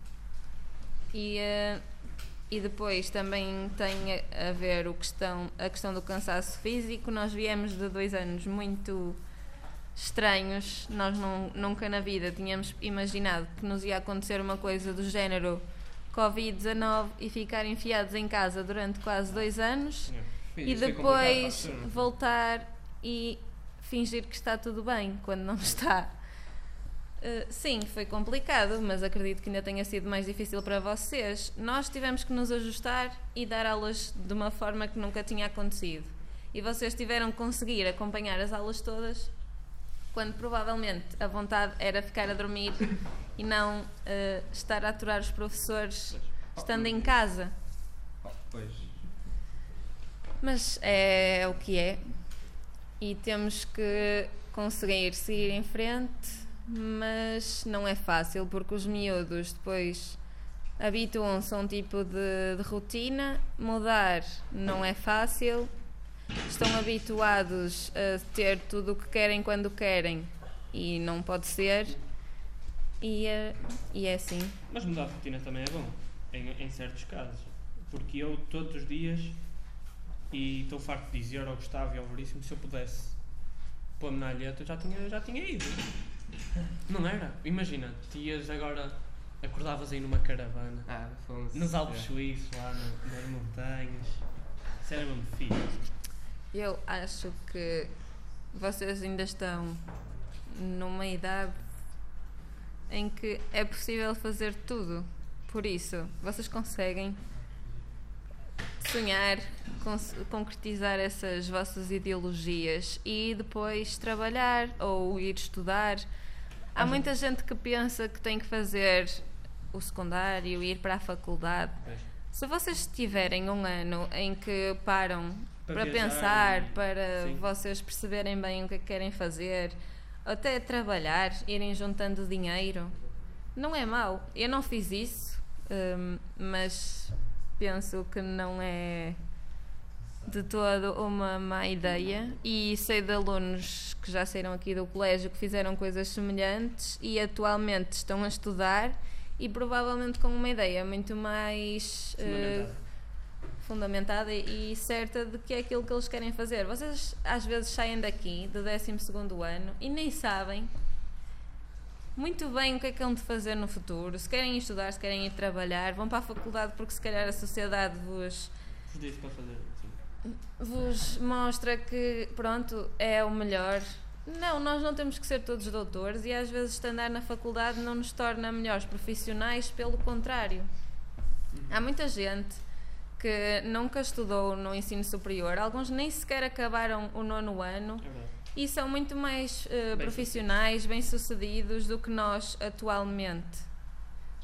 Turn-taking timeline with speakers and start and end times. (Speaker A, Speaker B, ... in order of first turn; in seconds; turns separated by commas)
Speaker A: 1.1-47.5, Speaker B: 19.4-20.3, Speaker C: 20.5-22.1, Speaker C: 46.5-47.2, Speaker C: 48.2-49.0, Speaker A: 50.4-74.6, Speaker B: 74.7-86.3, Speaker B: 86.9-95.9, Speaker C: 90.8-92.1, Speaker A: 96.5-101.7, Speaker A: 102.9-107.2, Speaker A: 108.8-116.1, Speaker A: 116.7-139.4, Speaker B: 116.8-117.0, Speaker B: 121.8-122.1, Speaker B: 125.7-127.4, Speaker A: 140.2-160.7, Speaker B: 152.2-152.8, Speaker A: 162.2-168.5, Speaker B: 168.9-170.0, Speaker A: 170.2-181.0, Speaker A: 181.7-193.7, Speaker B: 188.0-188.3, Speaker B: 189.9-190.4